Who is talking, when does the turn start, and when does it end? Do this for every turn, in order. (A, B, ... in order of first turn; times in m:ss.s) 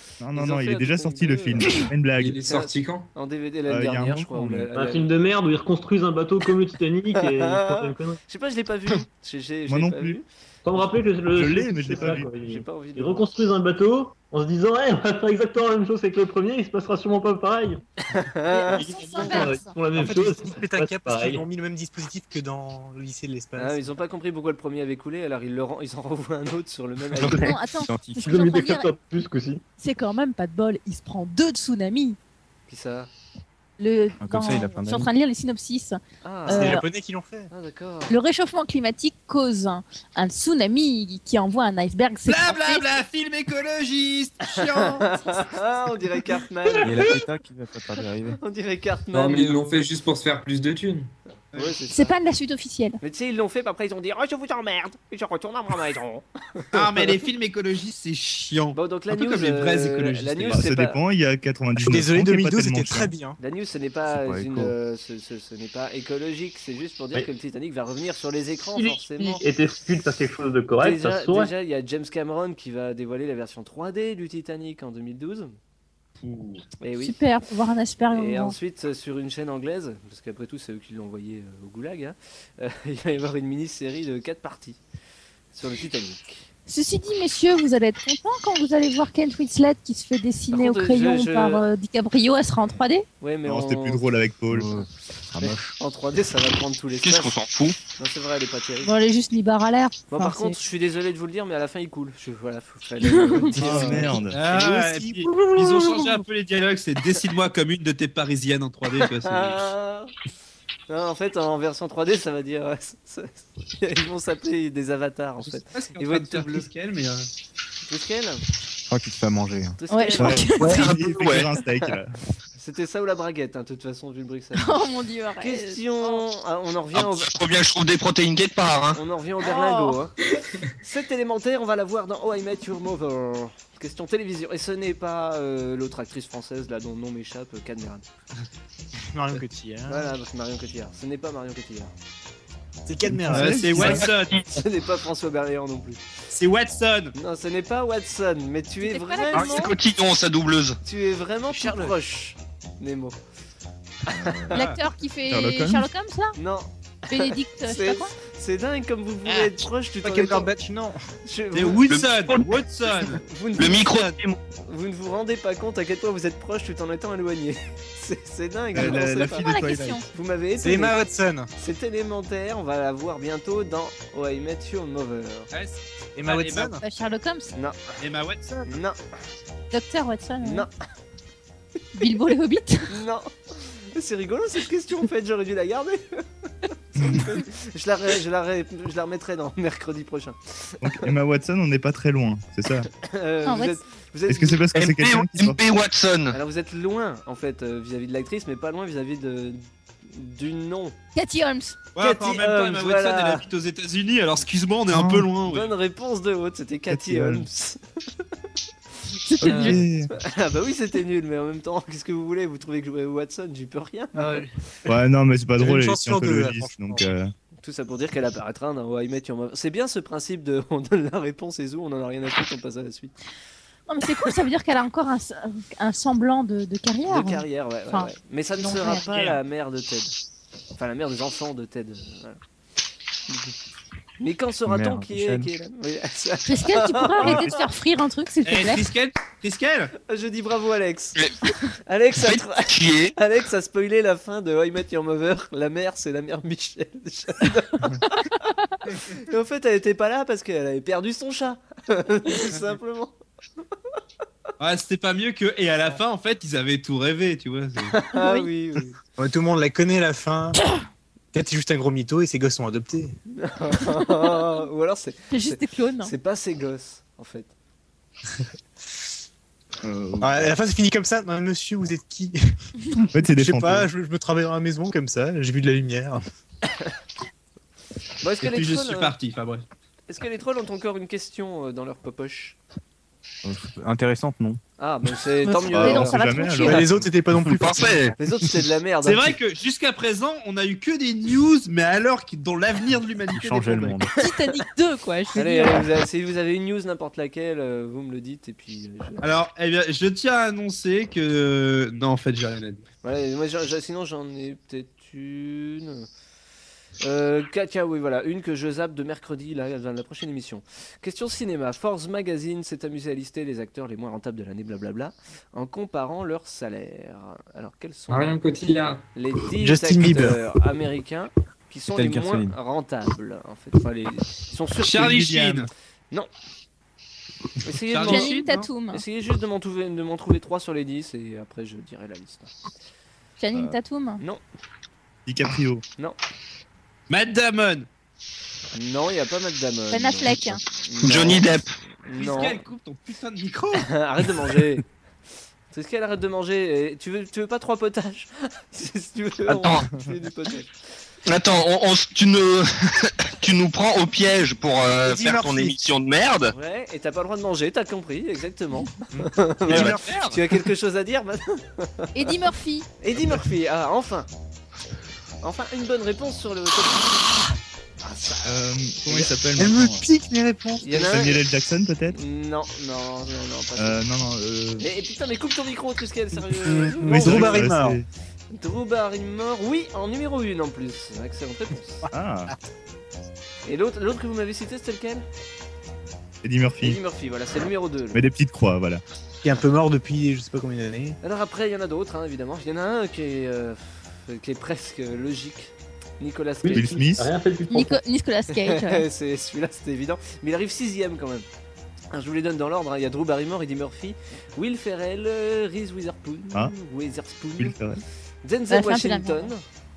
0:00.2-0:02.4 A
0:00.4-0:01.8 B
0:02.2-0:03.1 C
0:02.5-0:05.1 B
0:03.7-0:04.7 A
0:04.7-0:08.2 D
0:07.3-0:10.2 B
0:09.7-0:10.2 A
0:10.6-0:17.8 D
0:11.3-0:12.3 A
0:11.9-0:13.3 B
0:18.1-0:19.5 B
0:18.5-0:19.8 E
0:19.2-0:21.4 D
0:20.0-0:23.9 F
0:23.6-0:27.5 B
0:27.3-0:27.5 D
0:27.3-0:28.9 E
0:27.8-0:28.4 G
0:28.2-0:29.6 D
0:29.8-0:32.2 E
0:32.7-0:33.1 B
0:33.8-0:36.8 E
0:34.2-0:35.1 G
0:36.2-0:36.8 B
0:36.5-0:37.5 F
0:37.5-0:38.1 B
0:38.1-0:42.9 E
0:42.2-0:45.1 H
0:44.6-0:47.1 B
0:46.8-0:48.4 G
0:48.4-0:49.7 B
0:49.1-0:51.1 C
0:51.5-0:52.1 B
0:51.9-0:53.0 E
0:53.0-0:57.2 B
0:56.7-1:00.6 H
0:58.7-1:01.0 B
1:00.5-1:03.1 A
1:01.8-1:03.4 F
1:03.4-1:09.4 B
1:04.1-1:04.7 G
1:08.8-1:11.5 D
1:10.8-1:15.6 B
1:16.8-1:17.1 B
1:17.0-1:18.6 E
1:18.1-1:24.8 B
1:25.5-1:26.5 B
1:26.7-1:33.0 E
1:30.5-1:31.6 B
1:33.2-1:34.0 B
1:33.4-1:34.7 A
1:34.5-1:35.7 G
1:35.4-1:37.4 B
1:37.0-1:37.8 I
1:38.0-1:38.9 B
1:38.8-1:40.6 E
1:40.1-1:44.2 B
1:43.0-1:44.0 E
1:43.5-1:44.6 A
1:44.3-1:49.7 H
1:49.2-1:50.1 B
1:50.9-1:56.7 B
1:55.4-1:57.3 H
1:57.8-1:58.4 B
1:58.9-1:59.8 G
1:59.8-2:00.6 B
1:59.9-2:00.9 E
2:00.2-2:02.1 A
2:00.6-2:01.5 I
2:02.6-2:04.8 B
2:04.6-2:06.2 E
2:05.4-2:07.3 B
2:06.9-2:09.0 I
2:08.9-2:10.2 B
2:09.4-2:10.0 E
2:10.8-2:18.0 B
2:19.1-2:20.1 F
2:19.9-2:21.9 B
2:22.9-2:24.0 F
2:23.0-2:24.0 A
2:23.3-2:24.4 H
2:23.8-2:24.6 I
2:24.5-2:26.0 B
2:26.3-2:27.1 H
2:27.1-2:29.7 B
2:28.8-2:29.7 E
2:29.3-2:30.8 I
2:30.8-2:33.2 B
2:34.1-2:34.5 B
2:34.1-2:34.6 A
2:34.5-2:34.8 H
2:34.5-2:36.4 E
2:35.3-2:35.9 A
2:36.4-2:40.5 B
2:37.1-2:38.1 E
2:40.0-2:41.0 F
2:41.2-2:41.9 B
2:41.5-2:43.2 H
2:41.9-2:42.5 I
2:43.2-2:44.0 B
2:43.6-2:44.4 I
2:43.8-2:44.1 H
2:44.6-2:49.5 B
2:48.7-2:50.0 A
2:48.8-2:50.1 E
2:50.1-2:51.0 B
2:50.6-2:51.5 F
2:51.6-2:55.5 B
2:55.5-2:56.8 H
2:56.2-2:56.8 F
2:56.8-2:57.5 E
2:57.5-2:58.0 B
2:58.0-2:58.7 H
2:58.7-2:59.0 B
2:59.7-3:00.7 E
3:00.4-3:00.7 B
3:02.0-3:02.9 E
3:02.9-3:06.2 B
3:06.9-3:11.1 B
3:07.0-3:07.3 A
3:10.8-3:12.9 A
3:13.0-3:14.6 B
3:13.4-3:13.8 E
3:14.3-3:15.6 A
3:14.7-3:16.4 I
3:16.3-3:21.0 B
3:21.2-3:21.8 E
3:22.0-3:25.7 H
3:22.0-3:23.4 B
3:24.9-3:25.3 A
3:25.5-3:28.2 B
3:26.9-3:27.5 A
3:29.2-3:29.8 E
3:29.4-3:30.1 A
3:29.4-3:34.4 B
3:34.2-3:34.5 F
3:34.9-3:37.3 A
3:35.6-3:37.1 F
3:37.6-3:43.1 B
3:43.9-3:49.3 E
3:47.0-3:50.2 B
3:50.8-3:52.4 B
3:54.2-3:57.6 B
3:54.7-3:55.5 G
3:56.4-3:58.9 E
3:57.2-3:57.5 A
3:58.4-3:59.9 H
4:00.1-4:01.2 B
4:01.2-4:01.6 I
4:01.8-4:08.3 B
4:02.1-4:03.2 I
4:09.0-4:13.2 B
4:14.6-4:18.0 H
4:17.9-4:19.0 B
4:18.1-4:18.5 E
4:19.2-4:20.6 F
4:21.3-4:23.2 F
4:23.3-4:27.5 B
4:25.3-4:26.1 E
4:29.8-4:30.5 A
4:30.2-4:32.4 F
4:33.1-4:33.9 A
4:33.2-4:36.2 F
4:36.7-4:36.9 B
4:38.2-4:39.1 B
4:38.4-4:39.6 H
4:40.1-4:42.6 B
4:43.4-4:44.6 G
4:44.8-4:46.3 B
4:45.4-4:46.9 E
4:45.7-4:47.1 A
4:46.6-4:48.2 F
4:47.4-4:48.2 I
4:48.2-4:49.4 B
4:49.0-4:54.0 H
4:53.3-4:54.1 G
4:54.2-4:55.9 E
4:55.3-4:59.2 B
4:59.2-5:02.8 H
5:03.0-5:06.1 B
5:07.0-5:25.6 B
5:18.1-5:19.0 C
5:19.6-5:20.4 F
5:21.9-5:22.5 G
5:24.8-5:25.7 H
5:27.6-5:32.5 B
5:27.9-5:28.7 H
5:28.1-5:29.0 E
5:33.4-5:34.2 E
5:35.3-5:35.8 A
5:37.1-5:37.9 H
5:38.7-5:41.5 B
5:39.9-5:40.6 E
5:41.0-5:41.8 I
5:42.0-5:42.6 B
5:42.1-5:43.9 H
5:43.8-5:44.8 B
5:45.7-5:50.7 B
5:49.5-5:49.9 I
5:51.3-5:56.5 I
5:55.0-5:55.8 F
5:56.5-6:02.4 B
5:59.2-6:00.1 F
5:59.8-6:00.3 H
6:02.2-6:02.9 E
6:03.0-6:04.3 B
6:05.4-6:07.3 B
6:08.0-6:09.3 B
6:08.4-6:10.0 A
6:09.6-6:10.9 F
6:10.8-6:11.4 B
6:10.9-6:12.2 A
6:12.1-6:14.0 B
6:13.8-6:14.9 A
6:14.8-6:17.7 B
6:16.6-6:18.0 F
6:17.1-6:18.1 A
6:18.5-6:22.1 B
6:22.1-6:22.5 A
6:23.6-6:25.2 B
6:26.4-6:27.0 A
6:26.8-6:28.2 B
6:28.1-6:29.0 A
6:29.4-6:31.2 F
6:31.2-6:37.0 B
6:36.6-6:38.0 D
6:36.7-6:37.3 A
6:37.7-6:39.0 E
6:38.5-6:41.5 B
6:42.1-6:47.8 B
6:47.6-6:48.0 A
6:48.4-6:49.6 B
6:48.7-6:49.5 E